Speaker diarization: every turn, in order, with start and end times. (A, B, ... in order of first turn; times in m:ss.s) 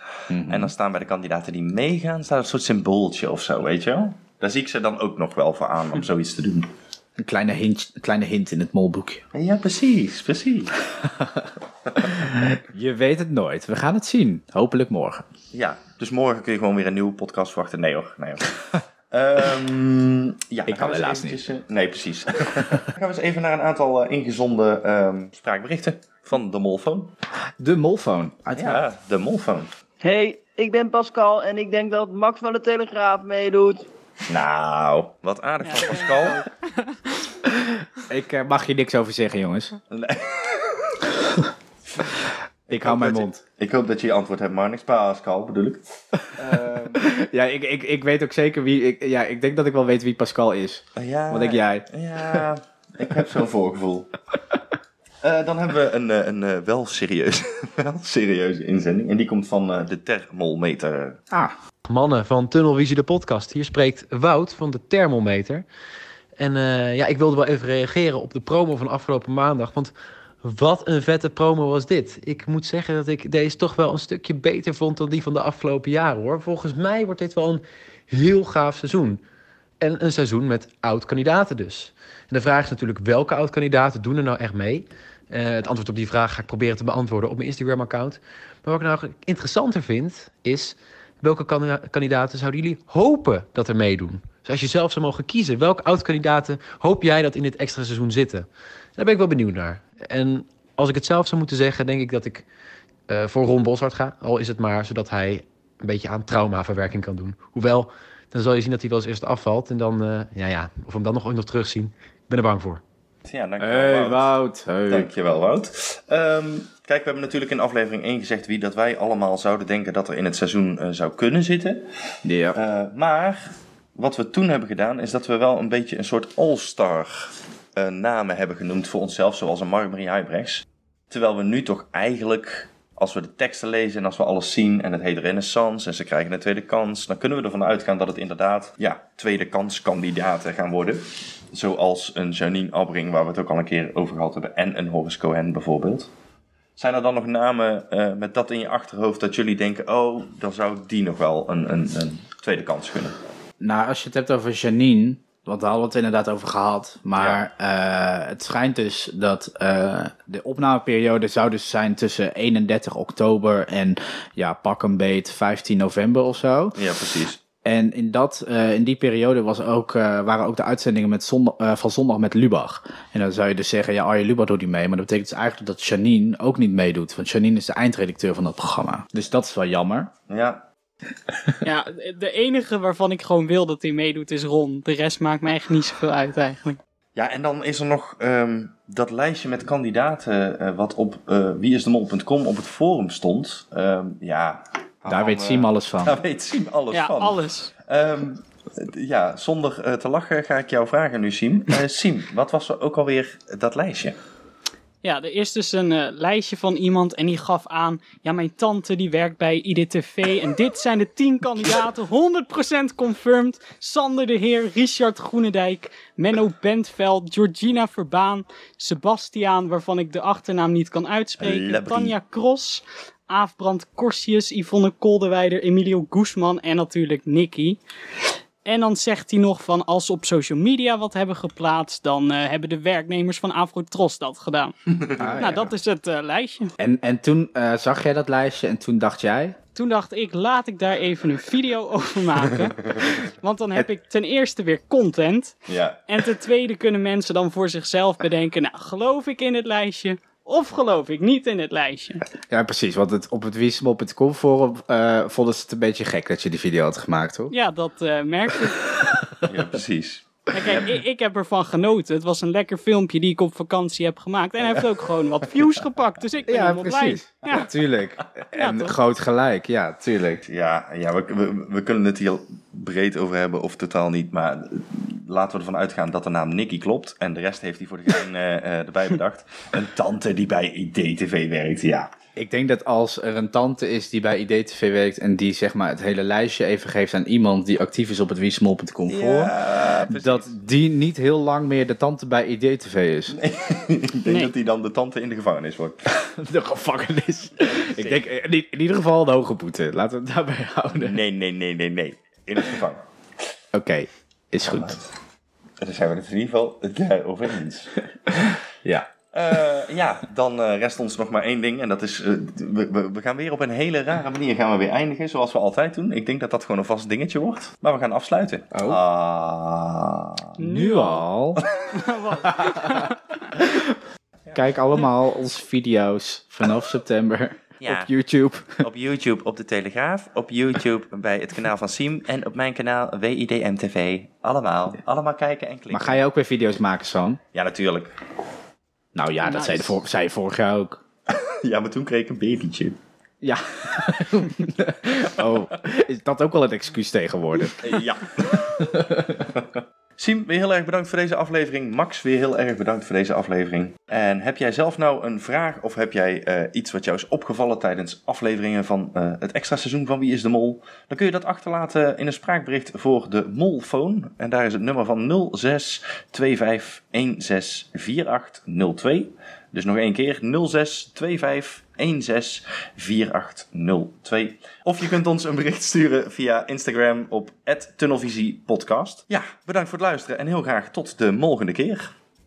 0:00.3-0:00.7 A
0:00.5-0:06.7 B
0:07.2-0:09.2 A
0:09.3-0:10.7 B
0:12.1-0:15.2 A
0:15.5-0:18.5 B
0:19.1-0:27.1 B
0:20.7-0:21.5 A
0:27.6-0:28.8 A
0:28.6-0:29.7 B
0:30.0-0:33.8 C
0:34.3-0:36.4 B
0:35.6-0:37.0 D
0:38.1-0:39.8 A
0:39.9-0:41.0 B
0:42.7-0:45.8 B
0:42.7-0:43.4 A
0:46.4-0:47.0 B
0:47.0-0:52.4 A
0:51.0-0:54.1 B
0:55.2-1:01.2 B
1:01.9-1:05.6 E
1:06.4-1:19.2 E
1:19.8-1:42.4 E
1:43.1-1:52.8 E
1:53.2-1:54.3 B
1:53.6-1:55.1 A
1:54.9-2:01.8 B
2:02.2-2:02.6 A
2:02.5-2:03.4 B
2:04.0-2:21.0 B
2:21.5-2:26.1 B
2:26.8-2:33.1 B
2:33.6-2:46.8 A
2:37.2-2:37.4 B
2:46.7-2:47.4 B
2:47.6-3:00.1 A
3:00.3-3:00.6 B
3:01.6-3:06.8 D
3:07.2-3:24.1 B
3:15.1-3:16.2 A
3:16.9-3:17.7 D
3:25.0-3:47.8 D
3:41.4-3:42.2 B
3:48.6-3:56.7 D
3:55.2-3:55.6 A
3:56.8-3:59.6 A
3:59.7-4:05.6 D
4:05.7-4:06.0 B
4:06.1-4:12.2 D
4:12.5-4:17.5 A
4:17.5-4:18.8 D
4:19.5-4:20.8 B
4:20.5-4:27.7 D
4:26.5-4:30.4 A
4:28.5-4:28.9 D
4:30.4-4:42.1 B
4:42.4-4:49.5 A
4:49.1-4:50.5 B
4:50.1-4:53.4 A
4:53.4-4:55.9 B
4:56.4-5:01.2 A
4:57.8-4:58.2 B
5:01.0-5:03.0 B
5:03.7-5:05.0 A
5:04.7-5:05.0 B
5:05.8-5:07.9 B
5:09.3-5:20.3 B
5:20.6-5:21.6 A
5:20.6-5:21.2 D
5:21.9-5:23.2 D
5:24.5-5:28.8 A
5:27.8-5:28.1 B
5:28.8-5:36.2 B
5:35.9-5:37.4 A
5:37.5-5:38.1 B
5:39.1-5:41.0 A
5:39.4-5:39.9 D
5:41.3-5:43.0 B
5:43.4-5:47.9 A
5:47.8-5:49.1 B
5:50.2-6:22.1 B